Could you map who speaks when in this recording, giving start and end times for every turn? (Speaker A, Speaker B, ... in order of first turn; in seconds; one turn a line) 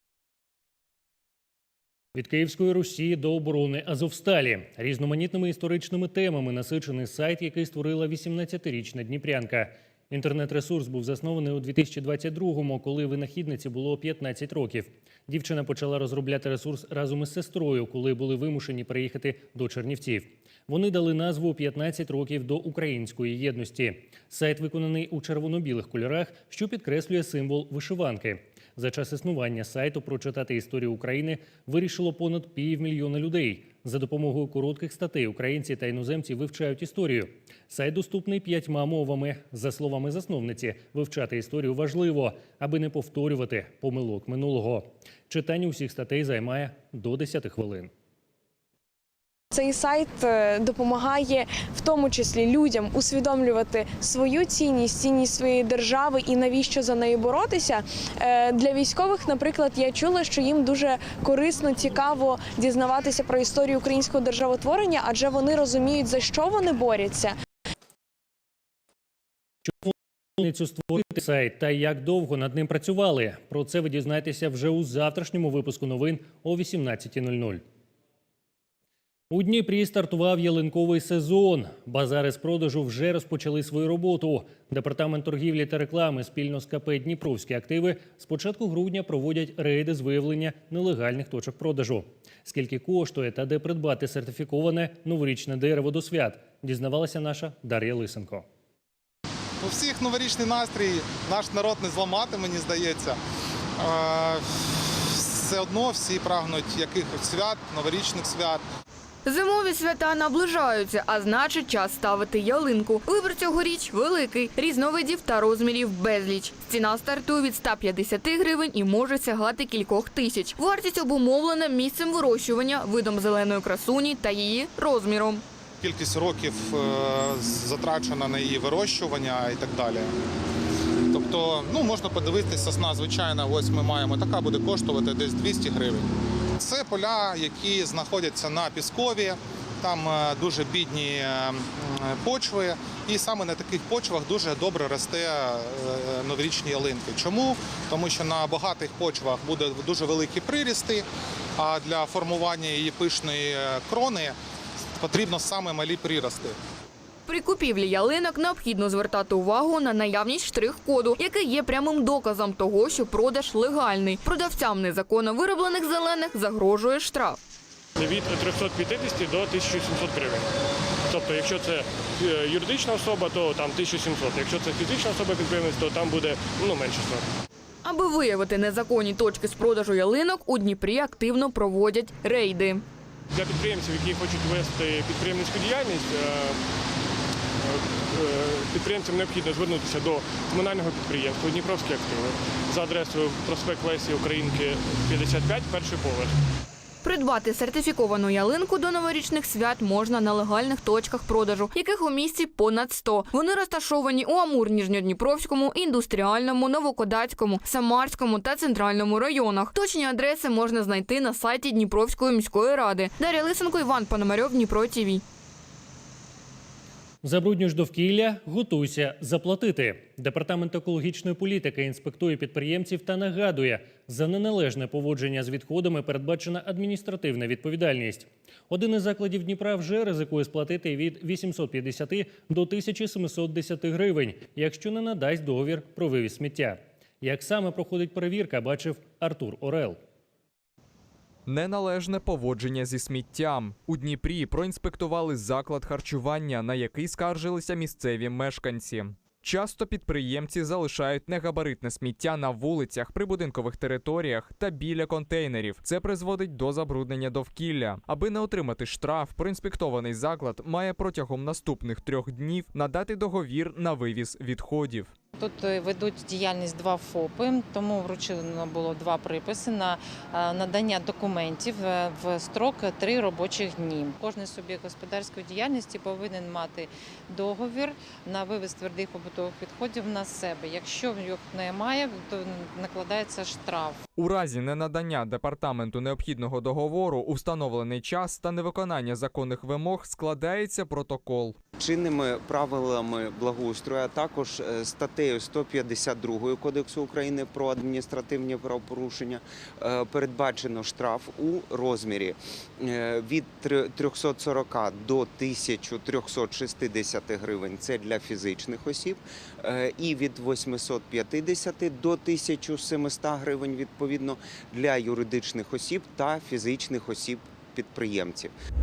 Speaker A: 2.1-47.9
Speaker B: 49.5-67.3
Speaker A: 69.7-77.6
Speaker A: 79.3-98.4
Speaker C: 99.6-103.2
Speaker C: 103.8-104.4
Speaker C: 105.1-108.6
Speaker D: 109.2-125.4
Speaker C: 125.8-130.1
Speaker C: 131.1-136.1
Speaker C: 136.6-151.0
Speaker C: 151.6-154.3
Speaker C: 155.0-156.5
Speaker D: 157.3-167.4
Speaker E: 168.0-170.5
Speaker E: 171.1-177.3
Speaker D: 177.8-182.8
Speaker E: 183.3-186.6
Speaker E: 187.6-196.3
Speaker D: 197.0-215.2
Speaker A: 217.2-240.0
Speaker F: 241.4-265.1
Speaker G: 265.3-284.0
Speaker F: 284.2-291.5
Speaker H: 291.8-318.5